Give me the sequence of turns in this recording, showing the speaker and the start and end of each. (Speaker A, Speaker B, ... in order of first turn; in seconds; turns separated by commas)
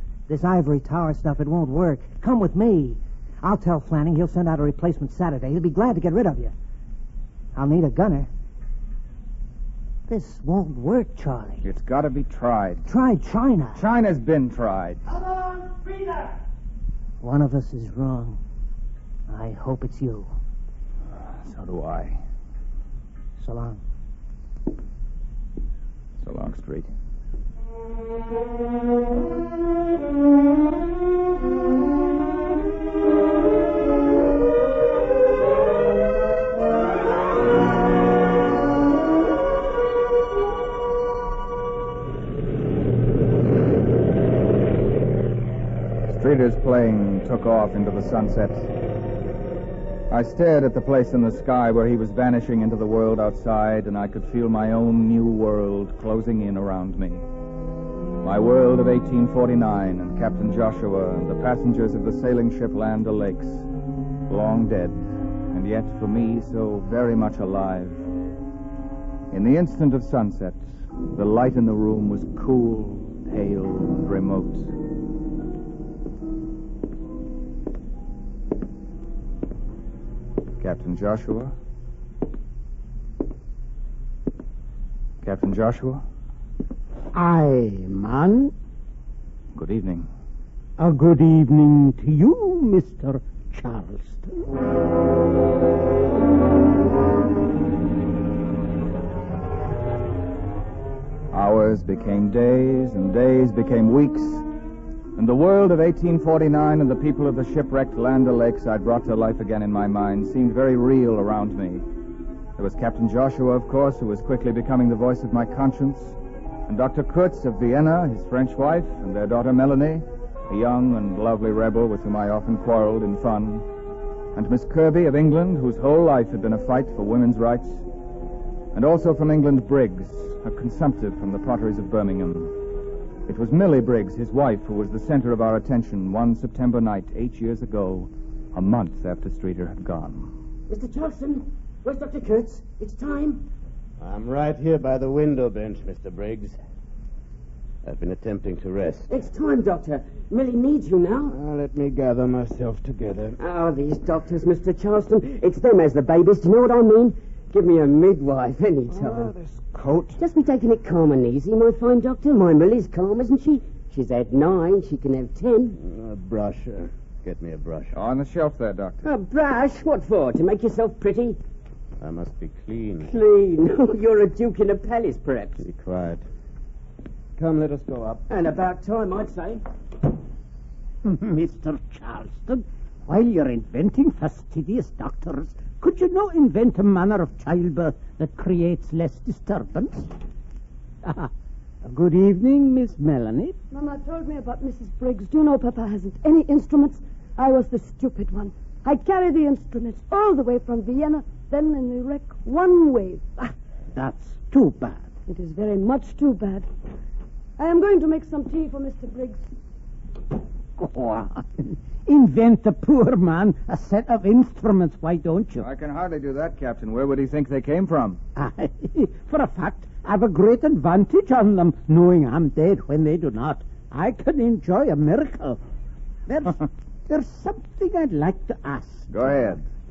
Speaker A: 0.3-6.5, Speaker A: 7.5-8.3, Speaker A: 10.1-11.6, Speaker B: 11.6-12.9, Speaker A: 12.8-13.8, Speaker B: 13.7-15.0, Speaker A: 17.2-18.4, Speaker A: 19.3-20.3, Speaker B: 21.4-22.2, Speaker A: 23.4-23.8, Speaker B: 26.2-26.9, Speaker B: 46.1-48.7, Speaker B: 50.1-57.2, Speaker B: 58.2-63.6, Speaker B: 64.3-68.0, Speaker B: 69.3-74.7, Speaker B: 80.6-81.5, Speaker B: 85.2-86.0, Speaker C: 87.1-88.5, Speaker B: 89.5-90.1, Speaker C: 90.8-94.5, Speaker B: 101.3-104.4, Speaker B: 105.2-111.8, Speaker B: 112.6-116.2, Speaker B: 116.7-123.6, Speaker B: 124.3-127.8, Speaker B: 128.7-132.5, Speaker B: 133.3-140.3, Speaker D: 140.7-143.4, Speaker E: 144.0-146.6, Speaker E: 147.8-149.1, Speaker D: 149.1-151.3, Speaker E: 151.3-153.3, Speaker D: 153.4-159.3, Speaker E: 158.9-160.2, Speaker D: 160.2-165.7, Speaker E: 165.8-168.0, Speaker B: 167.9-169.1, Speaker D: 169.0-171.4, Speaker E: 172.0-173.1, Speaker D: 173.0-175.6, Speaker E: 175.6-176.2, Speaker E: 177.4-178.2, Speaker D: 178.3-179.6, Speaker C: 181.0-190.1, Speaker C: 191.0-191.3, Speaker C: 191.8-193.6, Speaker F: 193.7-203.5, Speaker C: 203.9-205.0, Speaker F: 205.3-206.7, Speaker F: 207.6-209.4, Speaker C: 210.8-215.6, Speaker B: 215.6-218.2, Speaker C: 218.4-225.6, Speaker C: 226.3-229.1, Speaker B: 229.1-229.6